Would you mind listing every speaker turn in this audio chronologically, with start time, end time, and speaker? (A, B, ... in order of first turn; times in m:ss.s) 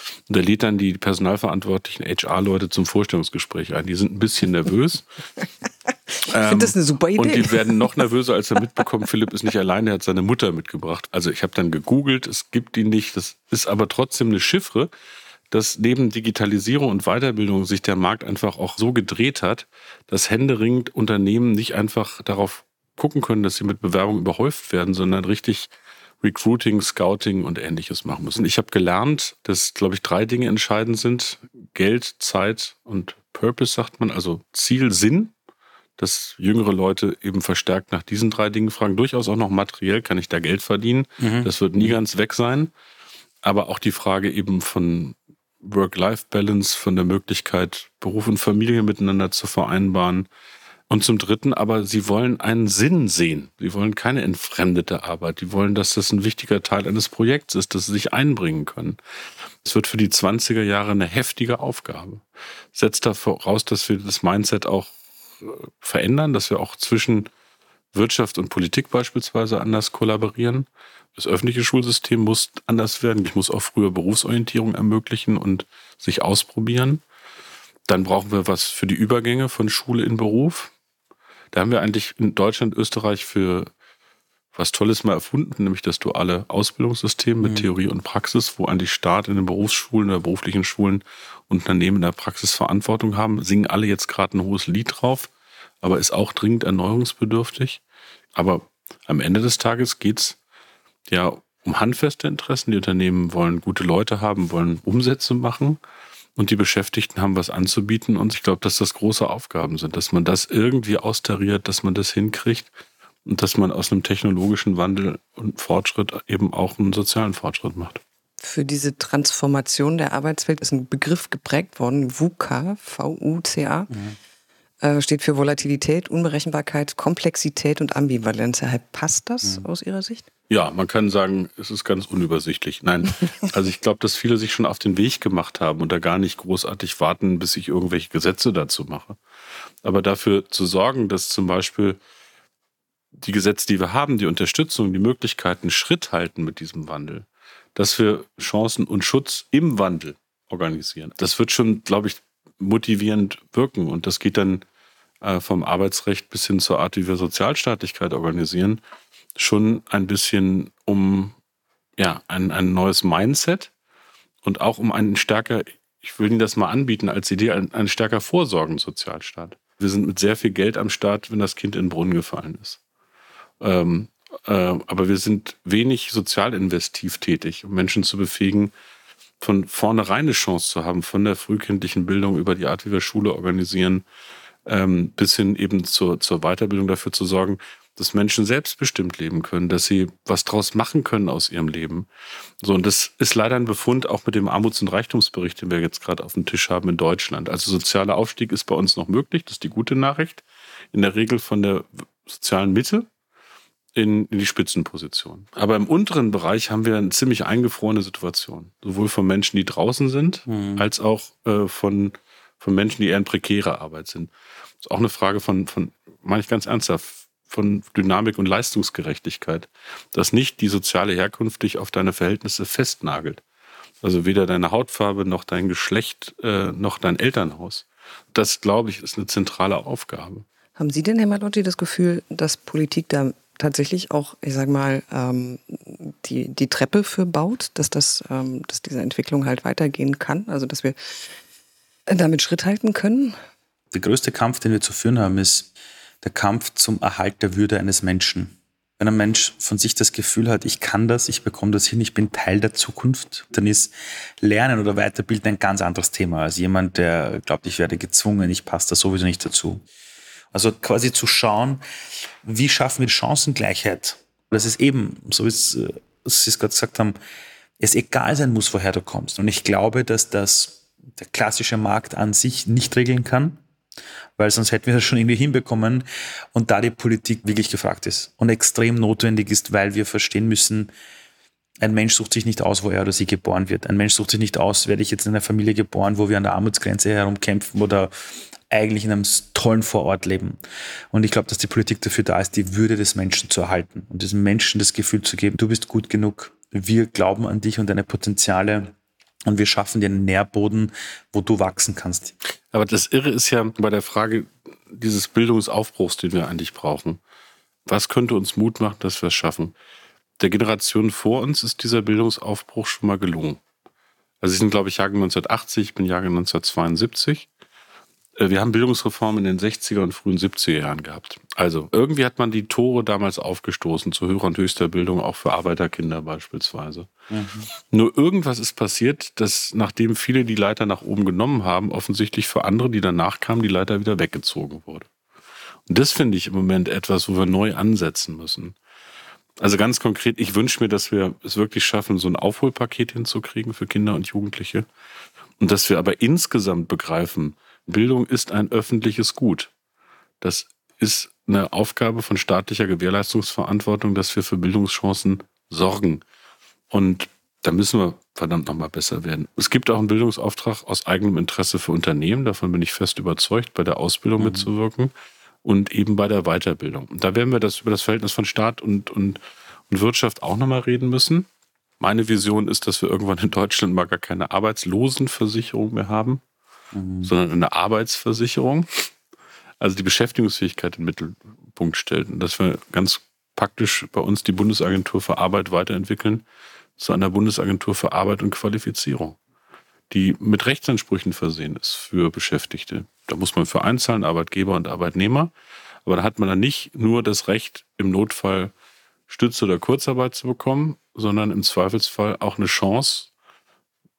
0:00.3-0:05.0 A
0:06.2-0:14.9 A
0:06.4-0:08.0 B
0:15.5-0:25.7 A
0:26.2-0:35.3 A
0:36.0-0:42.7 A
0:41.2-0:41.9 C
0:43.4-0:50.3 A
0:50.9-0:59.0 A
0:59.6-1:07.3 A
1:07.9-1:17.0 A
1:17.9-1:20.7 A
1:21.5-1:23.7 A
1:24.5-1:35.3 A
1:27.4-1:27.7 C
1:35.8-1:37.8 A
1:38.3-1:40.4 A
1:41.1-1:45.8 A
1:46.4-1:52.7 A
1:53.2-1:58.0 A
1:58.4-2:03.9 B
2:03.9-2:04.2 C
2:04.8-2:10.2 B
2:10.5-2:19.2 A
2:19.8-2:22.0 A
2:23.2-2:34.6 A
2:35.2-2:38.8 A
2:39.4-2:41.3 A
2:42.0-2:43.7 A
2:44.4-2:52.8 A
2:53.6-2:58.7 A
2:59.4-3:04.0 A
3:04.6-3:12.1 A
3:12.6-3:23.1 A
3:23.9-3:34.3 A
3:30.5-3:30.8 C
3:34.8-3:43.4 A
3:44.0-3:50.4 A
3:50.8-4:01.0 B
4:02.1-4:03.4 B
4:03.9-4:05.7 C
4:06.2-4:19.8 C
4:20.5-4:21.8 C
4:22.4-4:27.2 C
4:27.8-4:33.6 C
4:34.4-4:40.9 C
4:41.8-4:48.1 C
4:48.7-4:50.6 C
4:51.1-4:58.9 C
4:59.5-5:02.3 C
5:02.7-5:07.2 A
5:07.8-5:09.7 A
5:10.4-5:13.6 A
5:14.4-5:17.5 A
5:18.4-5:27.1 A
5:27.3-5:27.7 C
5:27.9-5:35.1 A
5:35.9-5:38.7 A
5:39.6-5:44.8 A
5:45.6-5:49.7 A
5:50.4-5:56.2 A
5:56.9-6:05.1 A
6:04.4-6:04.7 C
6:05.6-6:11.5 A
6:12.0-6:16.4 A
6:16.9-6:17.3 C
6:17.2-6:19.1 A
6:19.8-6:26.4 A
6:27.0-6:29.4 A
6:30.1-6:35.5 A
6:36.0-6:38.7 A
6:39.3-6:43.3 A